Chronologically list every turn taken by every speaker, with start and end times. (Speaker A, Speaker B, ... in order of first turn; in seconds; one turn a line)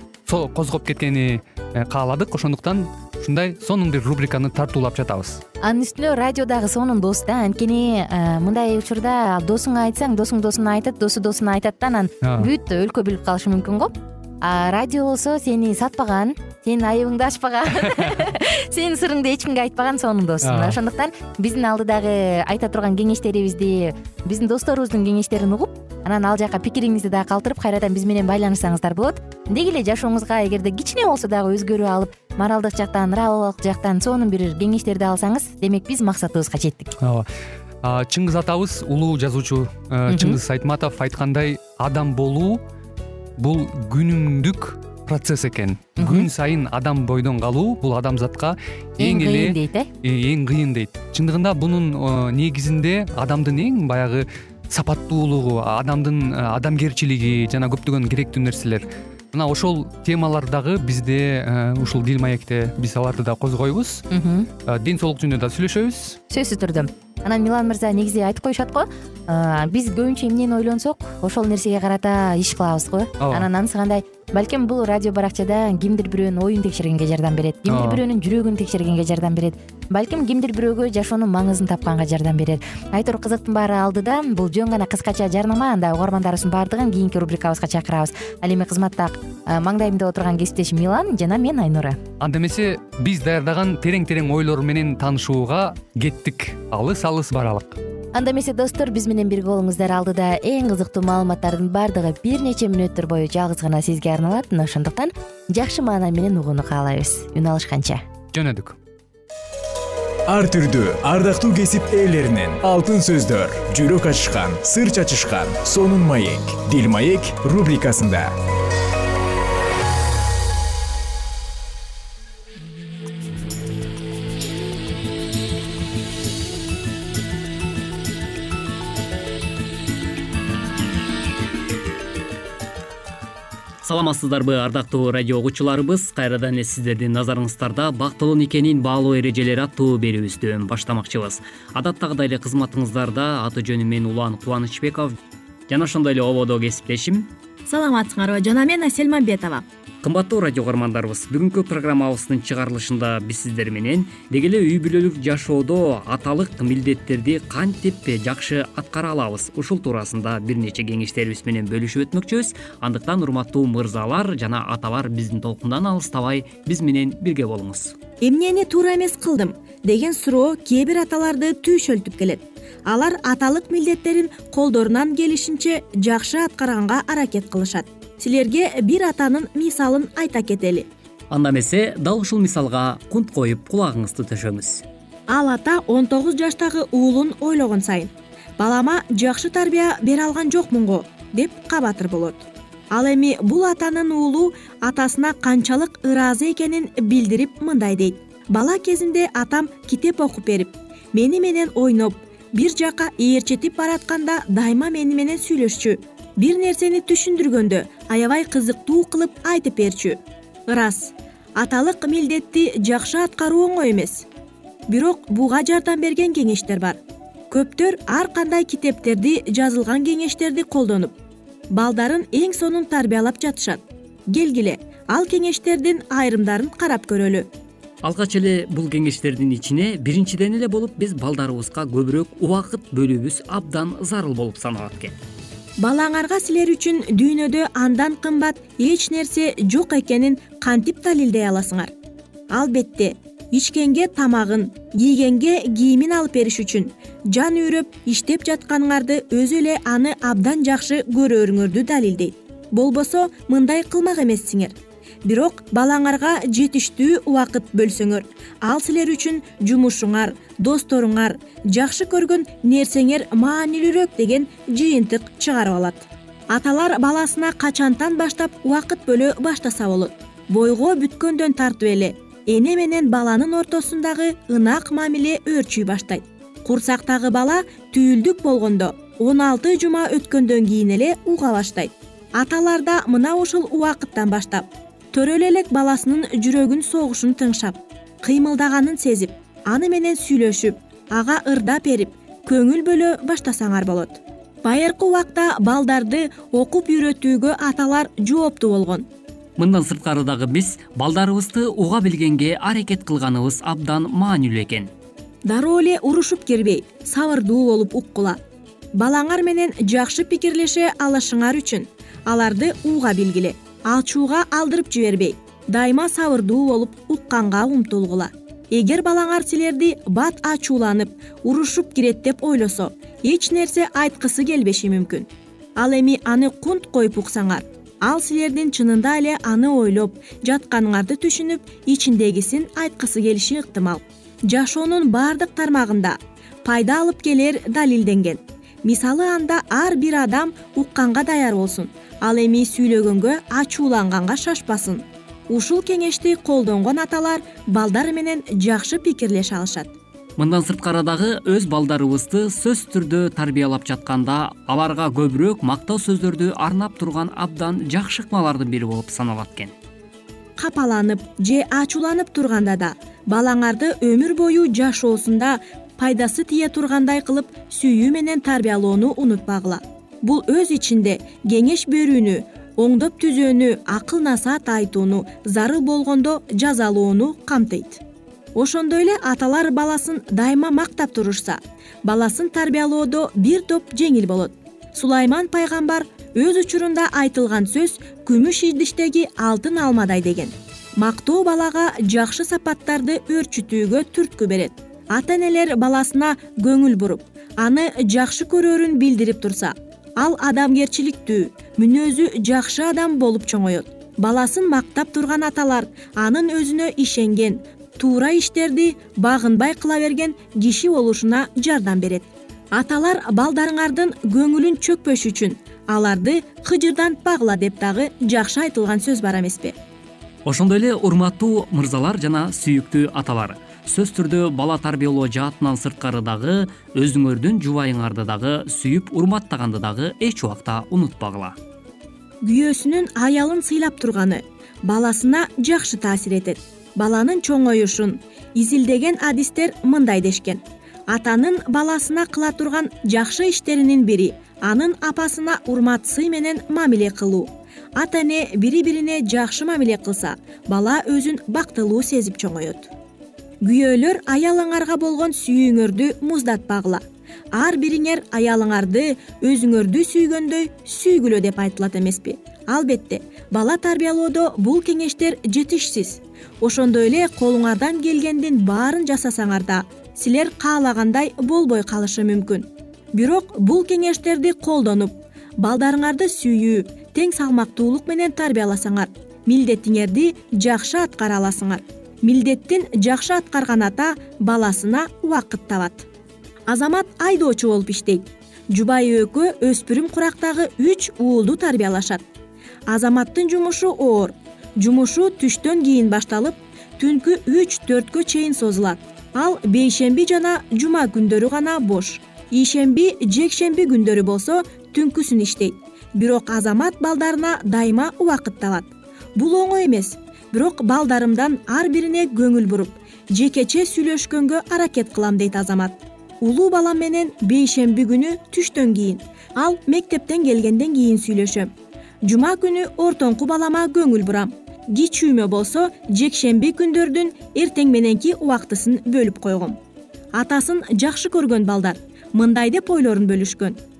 Speaker A: 0.3-5.4
Speaker B: 5.6-36.9
Speaker A: 12.2-12.5
Speaker A: 17.9-18.2
Speaker A: 20.4-20.8
Speaker A: 37.0-37.2
Speaker A: 37.8-42.6
Speaker B: 40.1-40.4
Speaker A: 43.4-64.0
Speaker B: 46.0-46.3
Speaker B: 49.0-49.9
Speaker B: 64.1-64.5
Speaker A: 64.7-66.2
Speaker B: 66.3-92.0
Speaker A: 73.2-73.5
Speaker A: 77.7-78.0
Speaker A: 92.2-97.8
Speaker B: 98.1-108.0
Speaker A: 108.3-108.8
Speaker C: 110.3-118.3
Speaker D: 133.8-147.3
Speaker E: 147.7-149.6
Speaker D: 150.0-167.9
Speaker E: 168.2-180.8
Speaker D: 181.3-184.8
Speaker E: 185.3-214.2
Speaker E: 214.9-217.0
Speaker E: 217.5-221.1
Speaker E: 221.7-227.5
Speaker D: 228.0-235.2
Speaker E: 235.8-241.9
Speaker E: 242.5-299.1
Speaker D: 299.6-304.9
Speaker E: 305.4-308.4
Speaker E: 309.0-349.9
Speaker D: 350.4-359.7
Speaker E: 360.6-378.0
Speaker E: 378.5-419.8
Speaker D: 420.4-431.6
Speaker E: 432.4-452.9
Speaker E: 453.6-457.0
Speaker E: 457.5-486.1
Speaker E: 486.7-492.2
Speaker E: 492.9-521.7
Speaker E: 522.2-529.8
Speaker E: 530.3-533.8